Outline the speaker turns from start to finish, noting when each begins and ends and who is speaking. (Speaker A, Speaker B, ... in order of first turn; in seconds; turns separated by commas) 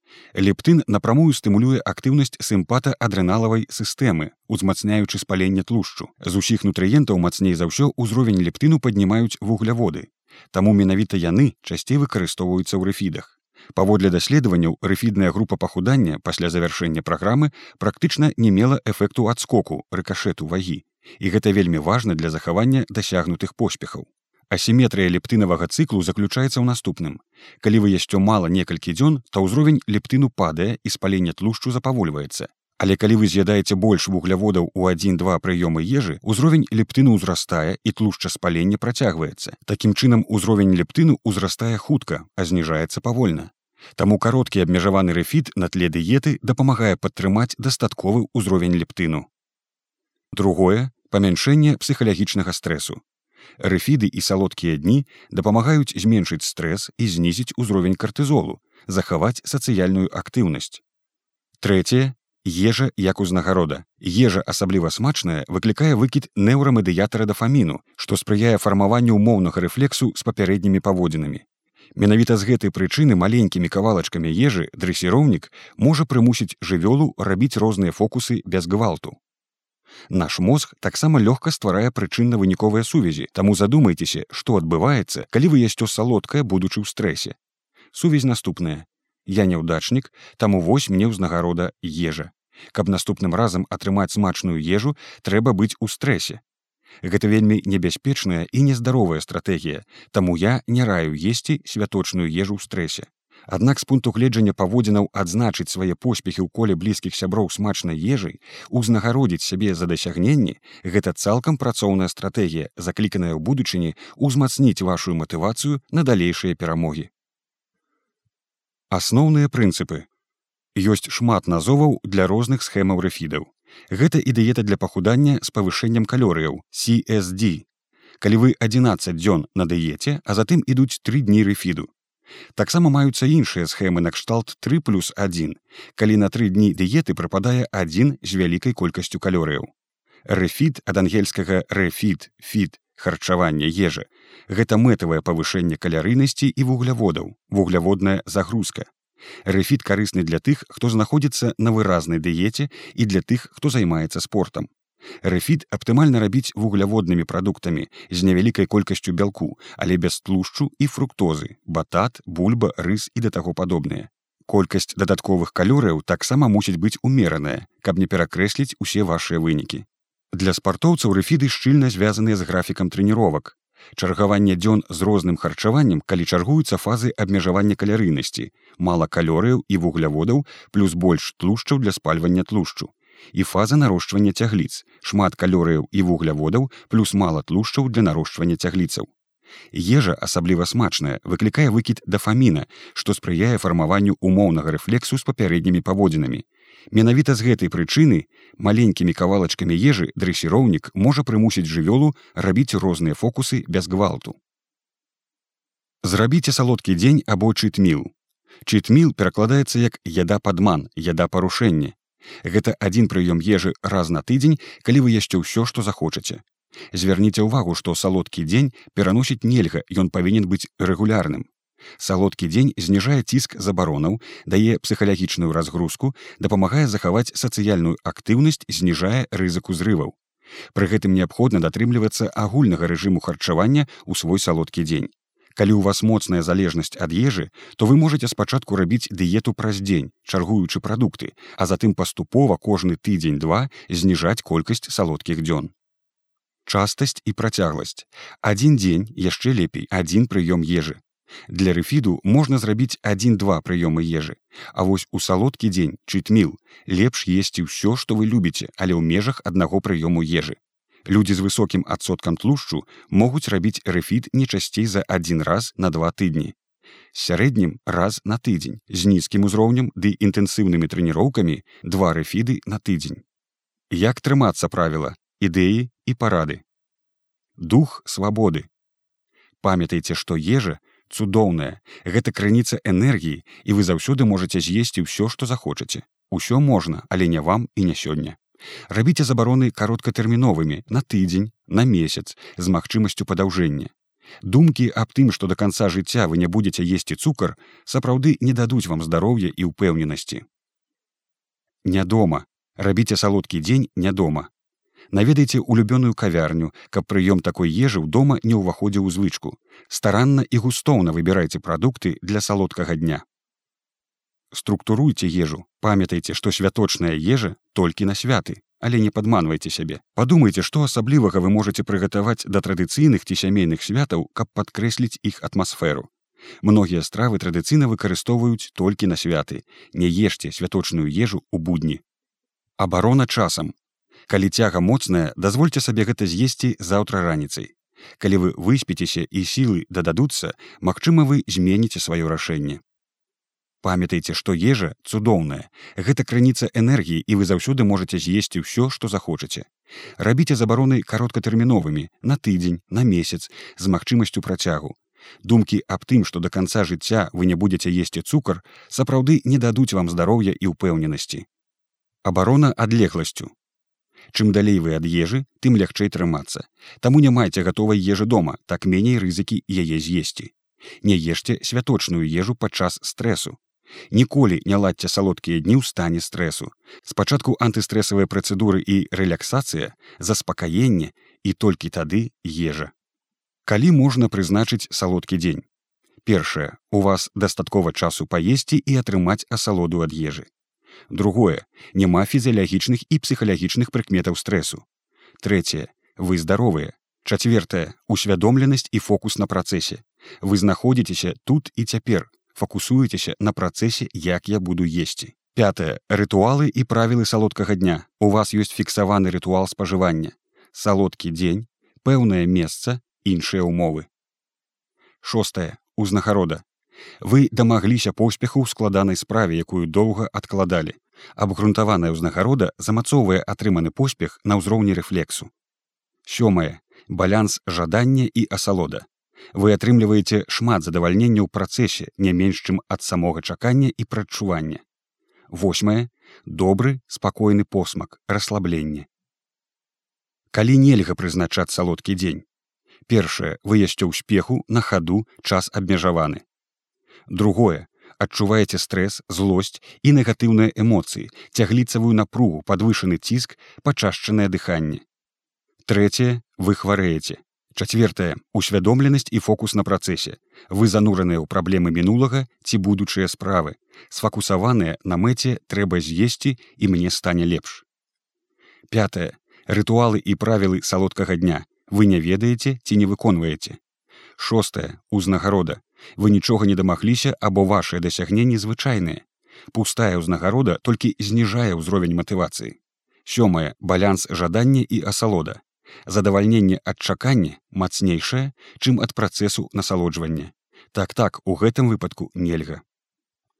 Speaker A: 0.3-49.3, Speaker A: 50.3-53.0, Speaker A: 53.6-60.8, Speaker A: 61.6-71.4, Speaker A: 72.0-79.2, Speaker A: 80.1-87.3, Speaker A: 87.9-96.4, Speaker A: 97.0-117.1, Speaker A: 118.9-120.1, Speaker A: 120.7-127.7, Speaker A: 128.2-131.9, Speaker A: 132.6-139.7, Speaker A: 140.2-148.9, Speaker A: 149.4-154.7, Speaker A: 155.2-189.1, Speaker A: 189.7-204.4, Speaker A: 206.0-208.1, Speaker A: 208.7-230.2, Speaker A: 230.7-245.7, Speaker A: 246.7-266.5, Speaker A: 267.1-273.2, Speaker A: 273.9-276.6, Speaker A: 277.6-278.7, Speaker A: 279.6-293.9, Speaker A: 294.4-300.4, Speaker A: 301.8-304.5, Speaker A: 305.1-313.2, Speaker A: 314.5-326.1, Speaker A: 326.6-332.0, Speaker A: 332.8-333.7, Speaker A: 334.3-342.8, Speaker A: 343.8-361.4, Speaker A: 362.2-363.5, Speaker A: 364.3-373.6, Speaker A: 374.1-382.9, Speaker A: 383.6-385.6, Speaker A: 386.2-390.5, Speaker A: 391.1-394.8, Speaker A: 395.4-414.1, Speaker A: 415.2-416.6, Speaker A: 417.2-425.5, Speaker A: 426.2-434.8, Speaker A: 435.5-439.1, Speaker A: 440.5-442.4, Speaker A: 443.1-446.4, Speaker A: 447.3-455.0, Speaker A: 455.9-467.8, Speaker A: 468.9-473.8, Speaker A: 474.4-492.8